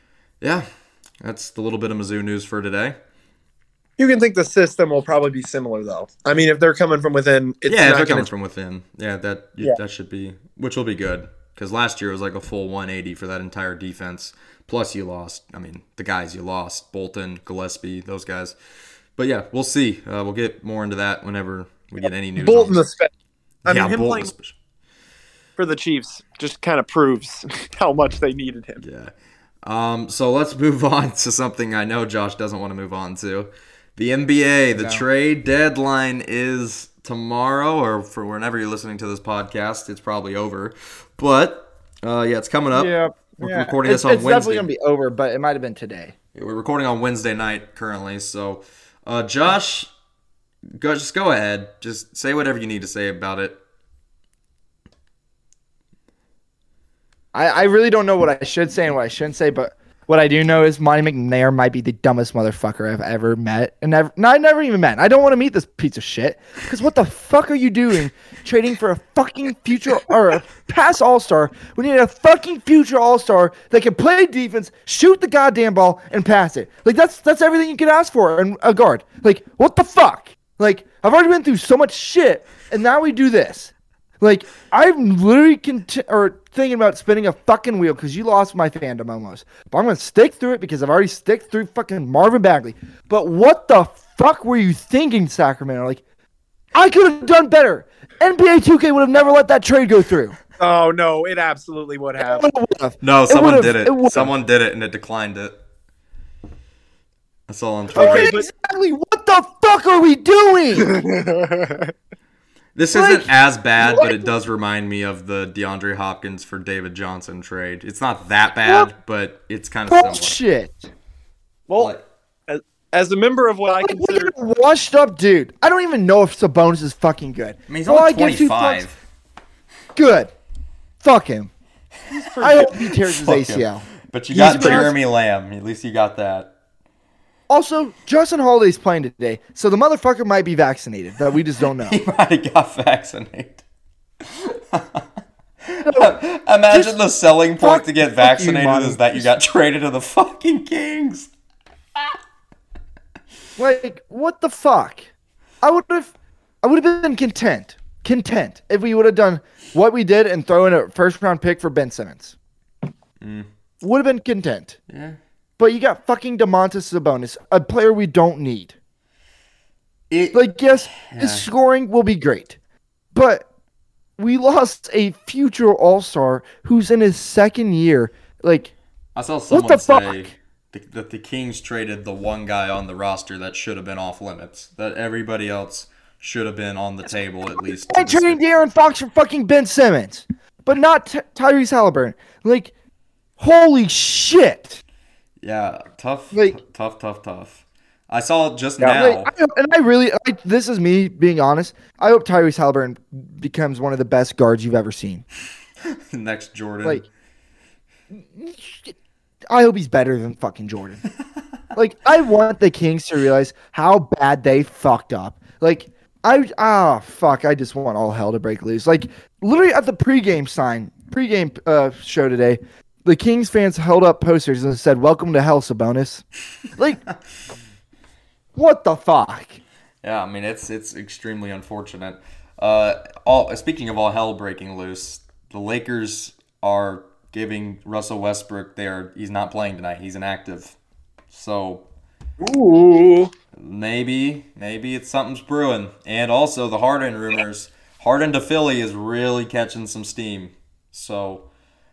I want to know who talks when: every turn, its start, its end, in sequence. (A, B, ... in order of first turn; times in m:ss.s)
0:00.4-0:00.7 A
0:01.2-0:03.0 A
0:04.0-0:08.3 B
0:07.7-0:18.6 A
0:19.2-0:22.8 A
0:22.0-0:23.1 B
0:23.6-0:24.3 B
0:23.7-0:24.6 A
0:25.6-0:28.8 B
0:28.8-0:29.1 A
0:29.6-0:44.7 A
0:34.7-0:35.0 C
0:42.7-0:46.1 C
0:46.4-0:49.9 A
0:50.8-0:53.6 A
0:57.3-1:36.0 C
1:36.7-1:40.4 C
1:40.6-1:42.5 B
1:42.2-1:44.3 C
1:43.0-1:45.6 A
1:47.5-1:48.4 A
1:47.9-1:48.5 B
1:47.9-1:51.0 C
1:50.8-1:51.9 B
1:52.8-2:00.4 A
1:52.9-1:54.2 C
1:58.6-1:58.9 C
1:59.9-2:00.9 C
2:01.7-2:02.0 B
2:01.8-2:02.0 A
2:02.5-2:04.3 B
2:03.8-2:08.8 C
2:07.7-2:09.0 A
2:10.0-2:10.3 C
2:11.0-2:11.5 C
2:12.1-2:12.9 B
2:12.4-2:15.0 C
2:13.1-2:16.5 A
2:14.5-2:14.9 B
2:17.5-2:22.0 C
2:21.8-2:23.6 A
2:24.4-2:25.0 A
2:25.6-2:31.3 A
2:25.8-2:26.1 C
2:26.7-2:27.0 C
2:27.6-2:29.3 C
2:33.6-2:35.0 C
2:35.6-2:42.4 C
2:43.2-2:43.5 A
2:43.8-2:44.8 C
2:44.9-2:45.2 A
2:45.6-2:48.8 C
2:50.1-2:51.5 A
2:50.3-2:52.6 C
2:53.1-2:53.5 C
2:54.2-2:58.7 C
2:59.2-3:08.4 A
2:59.5-3:00.3 C
3:07.7-3:12.7 C
3:13.4-3:14.8 C
3:15.4-3:19.3 A
3:16.3-3:16.6 C
3:18.8-3:25.2 C
3:26.1-3:27.1 A
3:28.1-3:29.0 C
3:29.5-3:31.0 C
3:31.8-3:46.2 C
3:46.8-3:47.0 C
3:48.6-3:49.6 C
3:50.0-4:00.8 A
4:01.3-4:01.9 A
4:02.4-4:03.3 B
4:03.6-4:11.5 A